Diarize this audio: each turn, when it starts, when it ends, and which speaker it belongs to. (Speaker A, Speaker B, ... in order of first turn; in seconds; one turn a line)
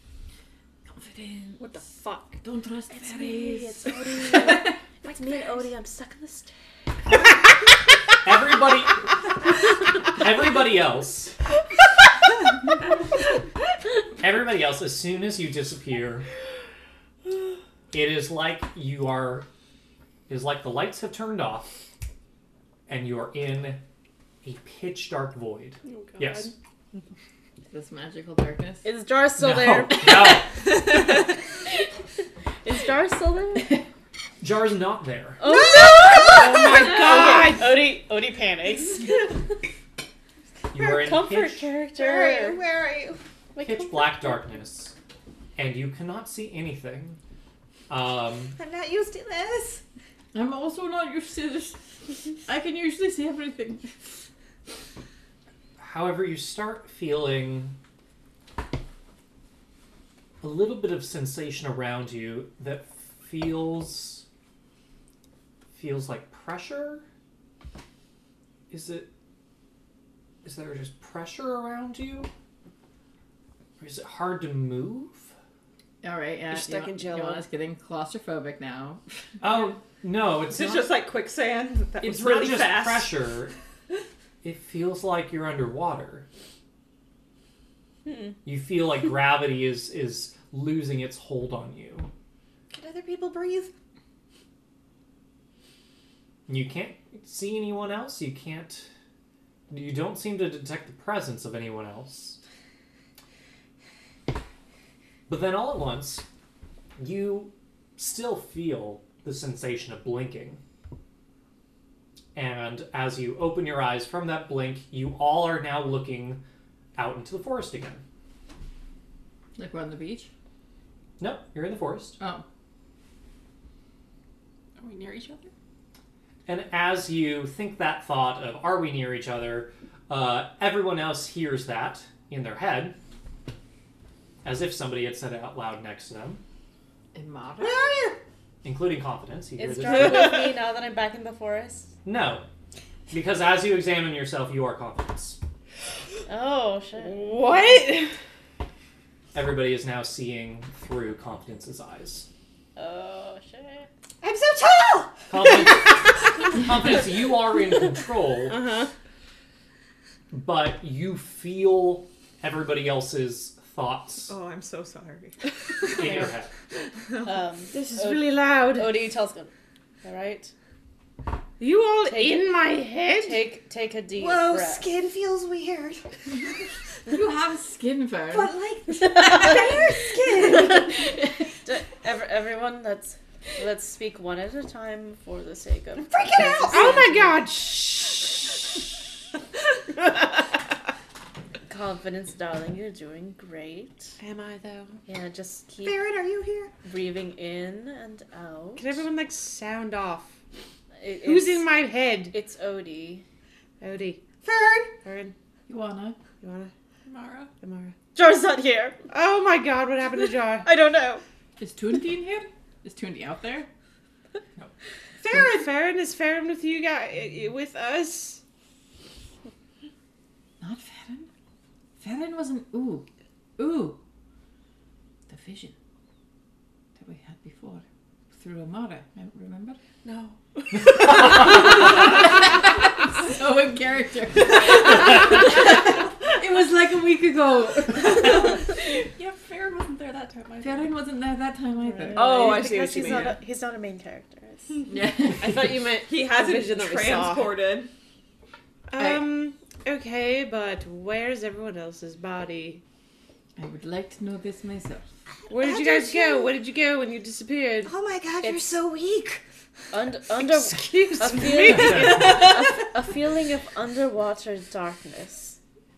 Speaker A: 0.9-1.9
Speaker B: 1.6-2.4
Speaker A: 2.4-4.8
Speaker C: 2.9-6.5
Speaker D: 8.2-11.4
Speaker D: 14.2-16.3
Speaker D: 17.9-19.5
Speaker D: 20.3-21.7
Speaker D: 22.9-23.8
Speaker D: 24.4-26.5
Speaker B: 25.8-26.5
Speaker A: 27.7-28.9
Speaker C: 28.8-30.5
Speaker D: 29.4-30.5
Speaker C: 32.6-33.8
Speaker D: 34.4-35.4
Speaker C: 35.4-39.3
Speaker E: 35.5-37.3
Speaker B: 35.5-37.9
Speaker D: 40.7-41.7
Speaker C: 40.8-42.6
Speaker E: 42.0-43.2
Speaker C: 43.5-44.4
Speaker D: 43.6-44.9
Speaker D: 45.6-47.2
Speaker D: 47.9-48.6
Speaker E: 48.6-49.8
Speaker A: 50.3-51.8
Speaker A: 52.5-53.9
Speaker D: 55.8-57.8
Speaker D: 60.4-64.2
Speaker D: 65.7-67.0
Speaker D: 68.7-69.1
Speaker D: 70.4-72.3
Speaker D: 73.8-75.3
Speaker A: 76.0-79.0
Speaker B: 76.5-77.4
Speaker D: 79.4-80.9
Speaker E: 80.5-83.2
Speaker D: 82.0-83.5
Speaker D: 84.4-86.2
Speaker D: 88.5-92.1
Speaker E: 92.7-93.7
Speaker D: 96.5-98.9
Speaker D: 99.7-102.4
Speaker D: 105.3-106.2
Speaker D: 107.0-110.6
Speaker D: 112.3-116.4
Speaker D: 117.0-118.0
Speaker A: 119.6-120.3
Speaker D: 121.2-122.2
Speaker A: 122.2-122.4
Speaker F: 124.8-125.5
Speaker D: 126.5-132.9
Speaker D: 134.4-136.4
Speaker A: 137.1-138.0
Speaker E: 137.6-138.2
Speaker D: 138.6-140.4
Speaker C: 139.6-141.9
Speaker B: 140.1-140.5
Speaker D: 142.1-142.4
Speaker D: 143.1-145.4
Speaker C: 146.3-147.4
Speaker B: 147.0-148.1
Speaker D: 149.3-152.3
Speaker C: 152.8-153.9
Speaker E: 154.2-155.2
Speaker D: 155.3-158.7
Speaker B: 158.4-158.9
Speaker D: 160.3-164.3
Speaker E: 164.3-165.4
Speaker D: 165.9-166.5
Speaker C: 167.2-169.5
Speaker B: 167.7-169.1
Speaker C: 170.0-170.5
Speaker B: 171.6-173.5
Speaker C: 172.1-174.9
Speaker E: 174.1-176.1
Speaker A: 177.1-178.5
Speaker E: 178.3-181.1
Speaker C: 181.7-187.4
Speaker E: 186.0-186.9
Speaker B: 186.7-188.4
Speaker C: 191.7-194.2
Speaker B: 194.2-195.0
Speaker C: 195.1-196.1
Speaker E: 195.8-196.7
Speaker C: 196.8-199.0
Speaker B: 198.8-200.3
Speaker C: 201.0-203.2
Speaker B: 201.2-202.3
Speaker B: 203.8-204.3
Speaker E: 204.4-204.9
Speaker B: 205.0-205.3
Speaker A: 205.7-206.2
Speaker B: 206.4-206.7
Speaker F: 207.1-207.5
Speaker B: 207.6-208.0
Speaker C: 208.2-209.0
Speaker B: 209.1-210.7
Speaker C: 210.6-211.2
Speaker A: 211.6-213.7
Speaker B: 215.2-218.4
Speaker A: 220.6-221.3
Speaker A: 222.0-224.0
Speaker A: 225.3-225.7
Speaker A: 226.9-229.8
Speaker F: 230.0-230.4
Speaker A: 231.9-238.6
Speaker F: 239.1-240.9
Speaker A: 240.6-243.3
Speaker B: 241.9-243.4
Speaker C: 242.1-244.8
Speaker A: 244.9-245.8
Speaker B: 245.4-247.6
Speaker E: 246.1-247.9
Speaker B: 248.9-252.8
Speaker A: 249.0-249.3
Speaker A: 253.6-255.1
Speaker B: 255.5-257.9
Speaker E: 255.5-256.6
Speaker E: 257.9-259.4
Speaker C: 258.4-258.7
Speaker C: 259.9-265.6
Speaker B: 260.8-262.8
Speaker D: 261.7-262.4